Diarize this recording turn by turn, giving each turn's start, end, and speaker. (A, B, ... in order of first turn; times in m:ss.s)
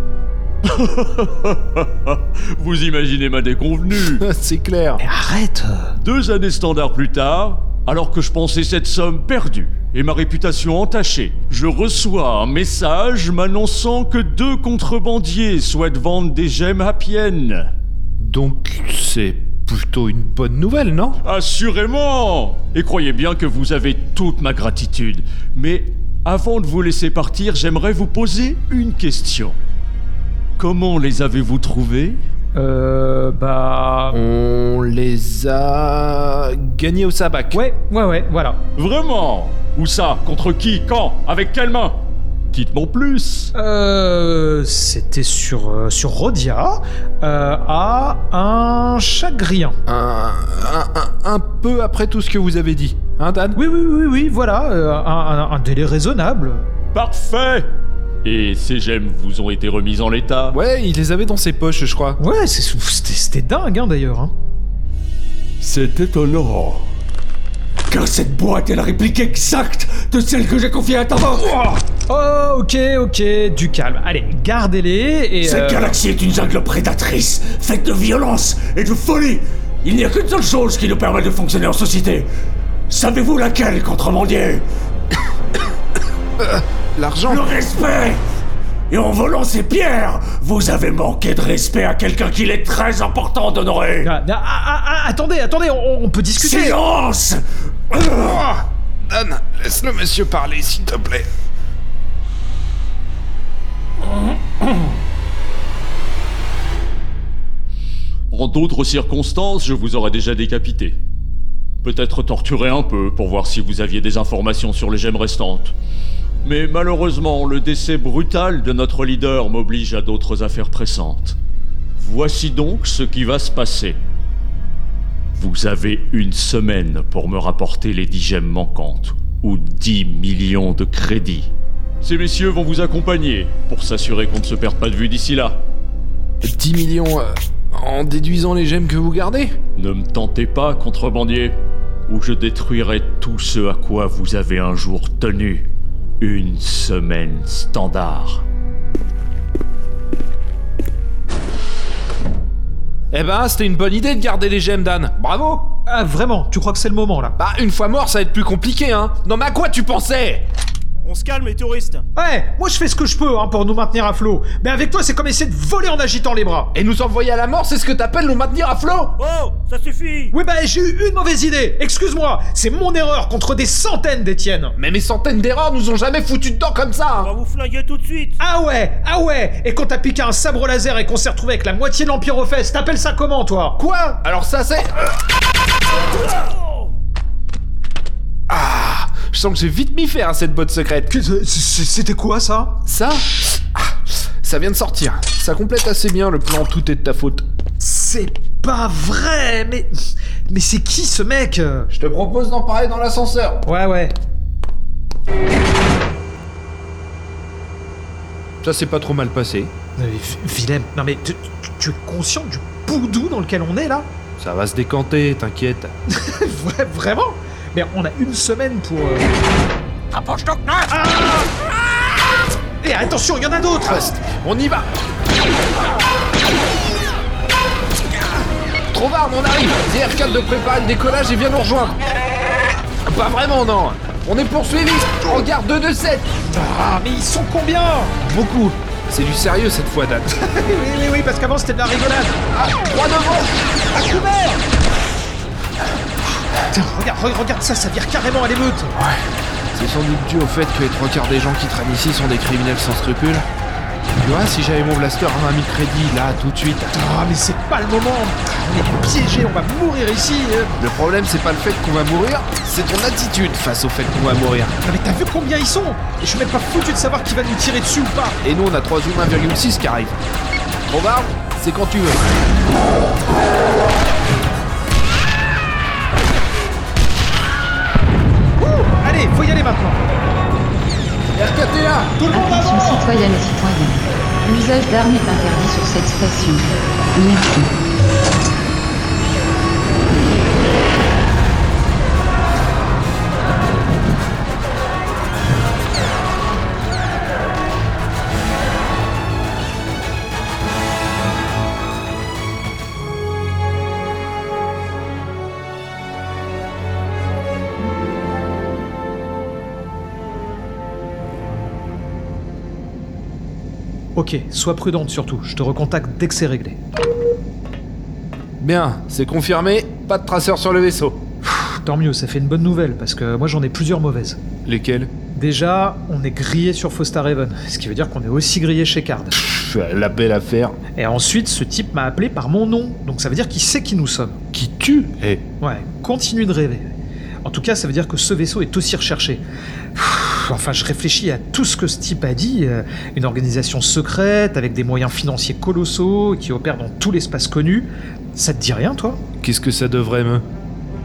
0:00.6-0:04.2 A
0:04.1-0:05.0 B
0:05.0-0:05.9 C
0:06.0-0:17.7 A
0:18.2-0:21.2 B
0:21.2-0:29.6 A
0:30.6-0:32.2 A
0:32.5-0:34.2 C
0:34.1-0:37.6 B
0:37.5-0:38.6 C
0:38.8-0:43.5 A
0:43.6-0:49.8 C
0:49.9-0:53.6 B
0:53.6-0:56.7 C
0:56.9-0:57.6 A
0:58.2-1:00.6 A
1:00.5-1:02.2 B
1:02.2-1:04.3 C
1:05.6-1:06.8 A
1:07.9-1:11.3 A
1:07.9-1:11.4 D
1:11.5-1:16.0 C
1:15.4-1:22.3 D
1:15.7-1:19.3 A
1:19.8-1:22.2 A
1:22.9-1:24.6 D
1:22.9-1:24.5 A
1:26.4-1:27.5 B
1:27.2-1:28.2 D
1:27.3-1:28.1 A
1:28.9-1:33.9 A
1:28.9-1:34.1 D
1:34.0-1:36.8 C
1:36.4-1:37.4 D
1:38.0-1:41.2 B
1:48.3-1:51.0 A
1:51.8-1:55.7 A
1:56.4-2:01.4 A
2:02.0-2:04.0 A
2:05.3-2:15.6 A
2:16.4-2:19.5 B
2:19.7-2:21.6 A
2:22.1-2:25.7 A
2:26.2-2:28.4 A
2:33.1-2:35.8 B
2:35.9-2:37.4 C
2:37.4-2:40.4 B
2:41.0-2:42.0 E
2:42.2-2:46.7 C
2:46.7-2:49.2 B
2:49.2-2:50.3 E
2:50.3-2:54.7 C
2:54.8-2:57.3 B
2:57.2-2:58.3 E
2:58.4-3:03.8 C
3:03.8-3:05.1 B
3:08.5-3:11.1 B
3:11.1-3:12.8 C
3:12.8-3:13.6 B
3:14.4-3:17.4 B
3:17.8-3:19.9 C
3:20.5-3:21.9 C
3:21.9-3:23.6 B
3:23.6-3:24.1 C
3:28.6-3:29.7 B
3:30.0-3:34.1 C
3:34.4-3:35.9 B
3:36.1-3:39.3 C
3:40.4-3:40.7 D
3:40.9-3:41.5 C
3:42.8-3:44.2 C
3:43.8-3:44.9 B
3:48.9-3:52.0 B
3:53.0-3:56.3 B
3:56.4-3:58.2 C
3:58.2-4:00.3 B
4:00.3-4:02.4 C
4:02.5-4:03.6 B
4:03.9-4:04.6 C
4:06.6-4:08.9 C
4:08.9-4:09.2 B
4:09.7-4:13.4 B
4:14.2-4:16.9 B
4:16.9-4:20.8 C
4:20.8-4:24.8 B
4:24.8-4:28.4 C
4:28.4-4:30.2 B
4:30.9-4:32.2 B
4:38.6-4:40.0 C
4:41.3-4:42.2 B
4:42.2-4:43.2 C
4:42.3-4:47.7 F
5:14.1-5:16.8 C
5:18.6-5:21.2 B
5:21.5-5:24.4 C
5:24.6-5:25.1 B
5:25.3-5:29.4 C
5:29.3-5:30.8 B
5:31.0-5:34.4 C
5:34.5-5:35.4 B
5:35.6-5:36.9 C
5:37.4-5:39.4 C
5:39.9-5:49.2 C
5:49.4-5:50.4 B